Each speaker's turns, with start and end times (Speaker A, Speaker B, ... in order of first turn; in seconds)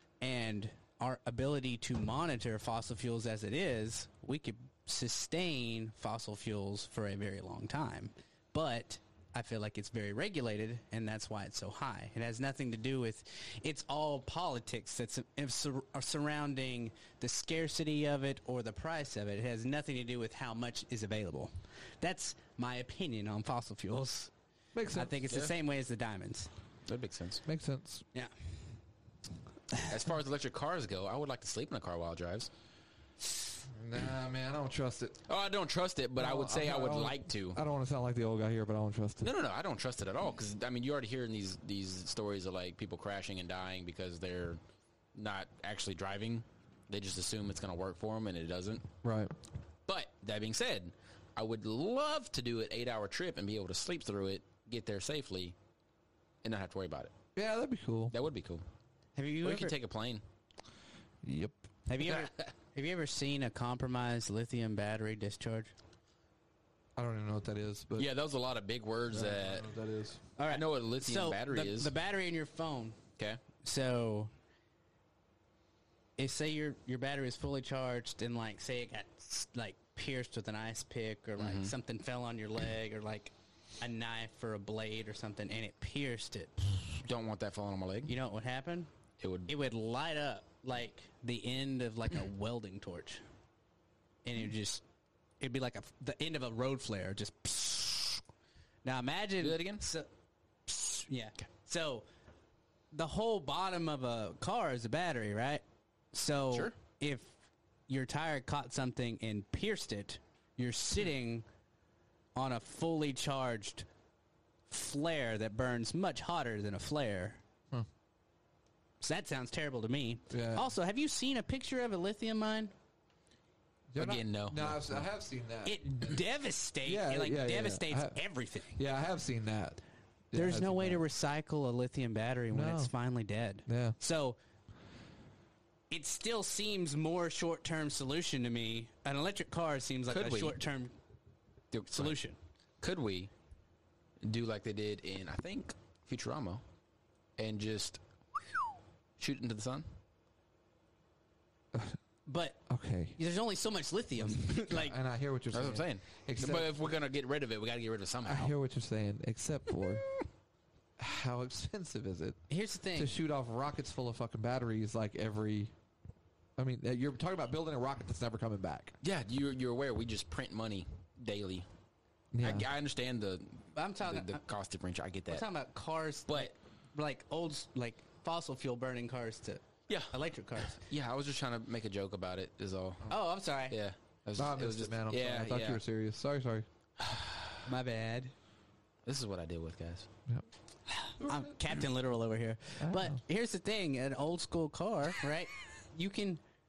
Speaker A: 0.2-24.3, 24.9-26.5, 59.1-59.7, 61.9-65.7, 70.4-73.0, 73.6-74.3, 76.2-87.0, 88.1-88.9, 89.5-93.2, 94.2-94.8, 95.4-98.2, 98.8-100.1, 100.7-102.0, 102.9-111.5, 112.3-113.9, 114.7-117.4, 119.0-122.7, 125.6-128.8, 130.3-134.4, 135.9-140.9, 141.9-142.4, 152.2-152.6, 153.2-154.9, 162.5-163.1, 173.7-174.4, 175.3-180.8, 183.1-183.8, 187.6-188.3, 190.9-196.4
Speaker B: 24.7-25.1, 27.4-28.0, 33.7-35.2, 36.2-39.3, 49.0-49.3, 57.4-58.1, 61.2-61.6, 67.0-68.1, 69.1-70.2, 120.3-120.7, 123.9-126.2, 126.8-128.2, 128.7-129.8, 130.3-131.0, 132.5-132.9, 133.7-133.9, 152.7-153.2, 154.4-156.7, 158.2-160.1, 161.0-162.4, 162.9-165.7, 166.6-168.9, 172.3-172.7, 184.3-186.7, 191.2-191.5, 192.8-193.2
Speaker C: 26.9-27.4, 29.8-32.5, 35.3-37.6, 39.2-44.6, 45.1-48.9, 49.9-55.5, 56.4-57.1, 58.1-58.6, 59.4-60.2, 68.0-69.7, 70.5-71.9, 81.4-81.7, 87.0-88.1, 89.2-89.5, 99.4-99.8, 124.0-124.8, 140.1-140.6, 141.7-142.2, 142.8-143.3, 144.2-146.6, 147.4-148.0, 149.2-149.8, 155.5-158.5, 169.0-171.7, 172.4-175.4, 179.9-183.1, 183.6-185.8, 187.0-187.6, 189.0-190.1